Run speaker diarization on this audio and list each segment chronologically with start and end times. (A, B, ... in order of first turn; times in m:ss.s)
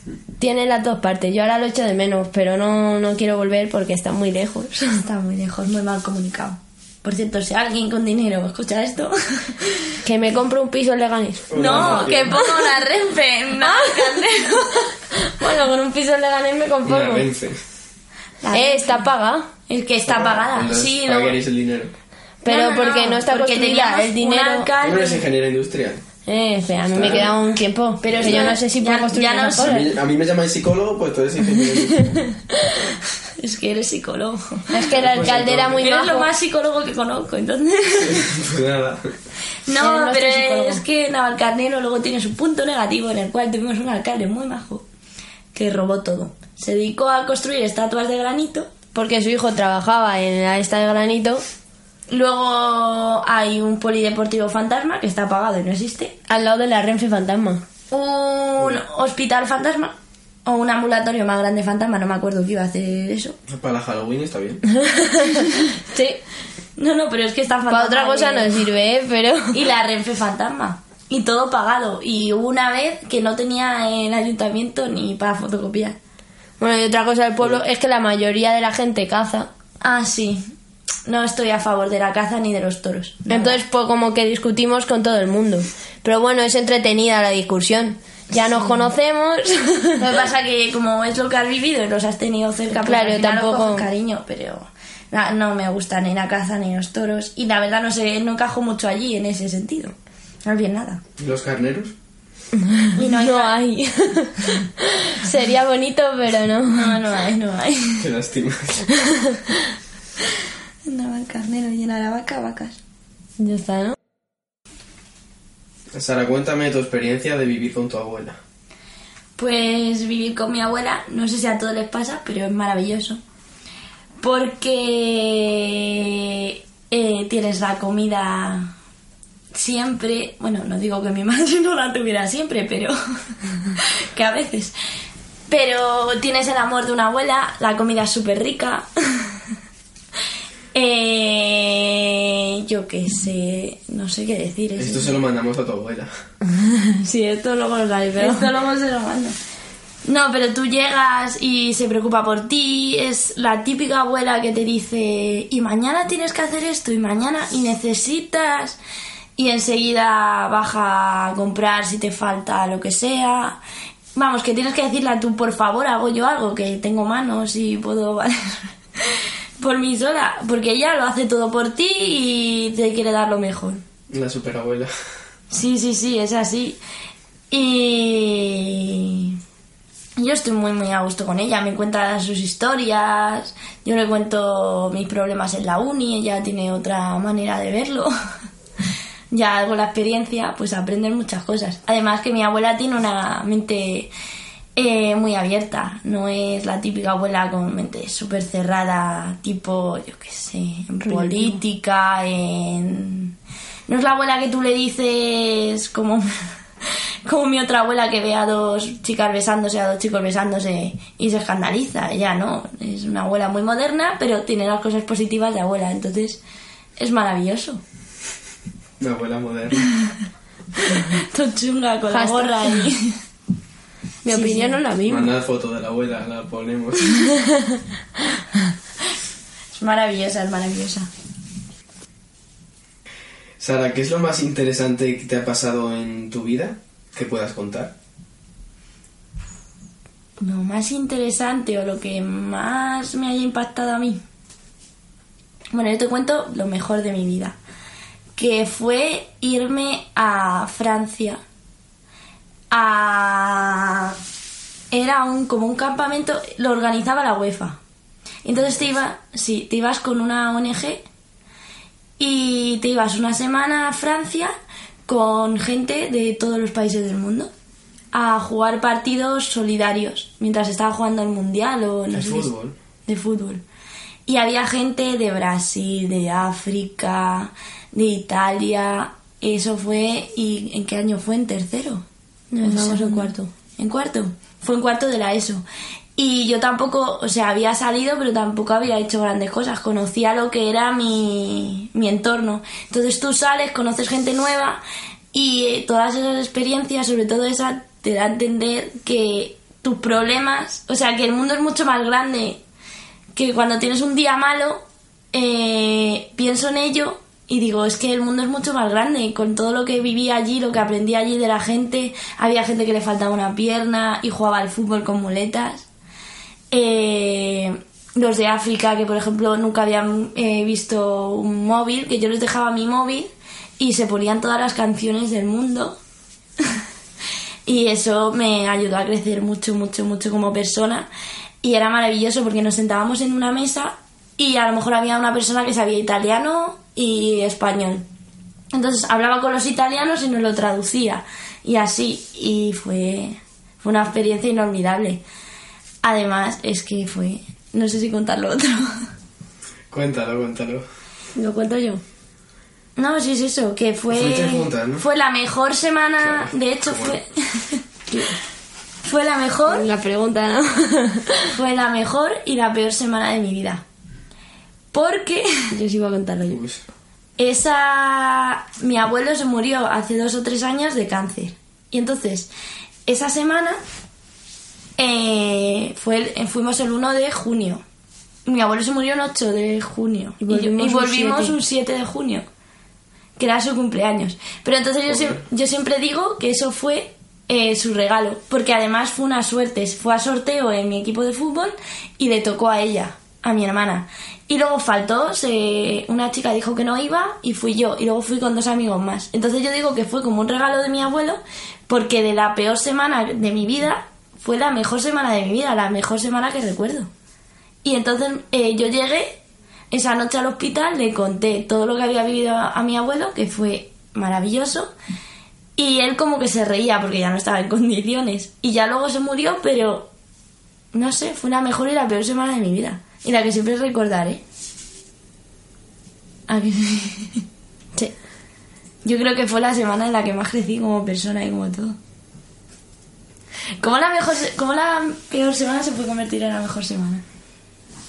0:00.4-0:05.0 A
0:05.0-0:09.8 B
0:10.0-0:12.7 A
0:11.5-0:12.4 C
0:11.5-0:14.8 B
0:13.6-0:17.3 A
0:16.8-0:17.6 C
0:18.4-0:19.0 B
0:18.5-0:19.5 A
0:19.7-0:21.4 B
0:20.0-0:21.9 C
0:22.4-0:24.7 A
0:22.4-0:25.2 B
0:24.8-0:26.0 C
0:26.3-0:29.9 A
0:26.9-0:27.4 C
0:28.0-0:29.8 B
0:28.2-0:28.5 C
0:29.6-0:32.2 C
0:31.6-0:32.9 A
0:33.4-0:34.7 B
0:34.7-0:36.3 A
0:35.0-0:35.9 C
0:35.8-0:38.3 B
0:38.0-0:39.1 C
0:39.6-0:44.8 B
0:39.8-0:40.8 A
0:45.5-0:48.7 B
0:48.9-0:51.4 A
0:52.1-0:56.2 B
0:56.3-0:57.6 A
0:57.9-1:03.4 B
1:03.5-1:04.6 C
1:04.7-1:06.2 A
1:06.8-1:08.5 B
1:07.7-1:09.6 A
1:09.5-1:16.0 B
1:16.6-1:19.5 A
1:19.8-1:20.5 B
1:21.1-1:23.6 B
1:23.3-1:30.0 A
1:28.3-1:28.9 B
1:30.0-1:41.0 B
1:32.8-1:33.9 A
1:41.2-1:41.9 C
1:42.6-1:47.0 A
1:42.9-1:43.6 B
1:46.7-1:48.0 B
1:48.0-1:48.9 C
1:49.0-1:49.4 A
1:50.9-1:52.8 B
1:53.4-1:53.9 A
1:55.9-1:58.4 C
1:59.4-2:03.2 B
2:04.2-2:08.7 B
2:09.5-2:12.9 B
2:13.7-2:14.7 B
2:15.5-2:19.3 B
2:20.7-2:25.2 B
2:24.8-2:26.1 C
2:26.6-2:28.5 A
2:28.2-2:29.4 B
2:30.0-2:38.8 B
2:39.4-2:43.6 B
2:44.1-2:53.8 B
2:54.1-2:54.9 C
2:55.5-2:56.8 B
2:57.5-2:59.4 B
3:00.2-3:08.1 B
3:09.3-3:14.1 B
3:14.8-3:23.3 B
3:21.0-3:21.6 A
3:23.9-3:26.4 B
3:27.3-3:36.4 B
3:37.0-3:37.8 B
3:39.0-3:39.9 C
3:40.8-3:43.2 B
3:42.1-3:42.9 A
3:44.2-3:45.3 A
3:44.3-3:44.8 B
3:45.1-3:47.2 C
3:47.2-3:47.8 A
3:49.7-3:51.1 B
3:53.6-3:57.9 C
4:00.4-4:04.2 B
4:05.7-4:07.6 B
4:08.4-4:11.4 B
4:12.7-4:14.2 B
4:14.9-4:17.8 B
4:18.4-4:21.0 B
4:22.2-4:24.5 B
4:25.1-4:27.5 B
4:28.1-4:32.5 B
4:32.1-4:32.8 C
4:33.1-4:33.6 B
4:34.3-4:42.0 B
4:42.5-4:43.4 A
4:42.6-4:45.6 B
4:46.2-4:54.8 B
4:55.3-5:02.6 B
5:03.3-5:15.9 B
5:16.7-5:26.0 B
5:27.6-5:31.1 B
5:31.6-5:38.1 B
5:38.7-5:45.2 B
5:46.0-5:49.1 B
5:49.9-5:50.8 C
5:51.4-5:52.0 A
5:53.0-5:57.8 B
5:54.1-5:55.0 C
5:56.2-5:57.2 C
5:59.0-5:59.9 B
5:59.7-6:01.5 A
6:01.5-6:03.8 B
6:04.9-6:05.7 B
6:05.7-6:06.6 A
6:06.5-6:06.8 C
6:07.4-6:12.5 B
6:13.1-6:13.8 B
6:15.0-6:17.8 B
6:18.4-6:22.4 B
6:20.4-6:21.5 A
6:23.4-6:47.1 B
6:25.1-6:25.4 C
6:47.8-6:49.4 B
6:49.9-6:54.9 B
6:55.8-7:00.1 B
7:00.9-7:04.4 B
7:06.5-7:07.4 B
7:09.0-7:12.0 B
7:13.8-7:17.2 B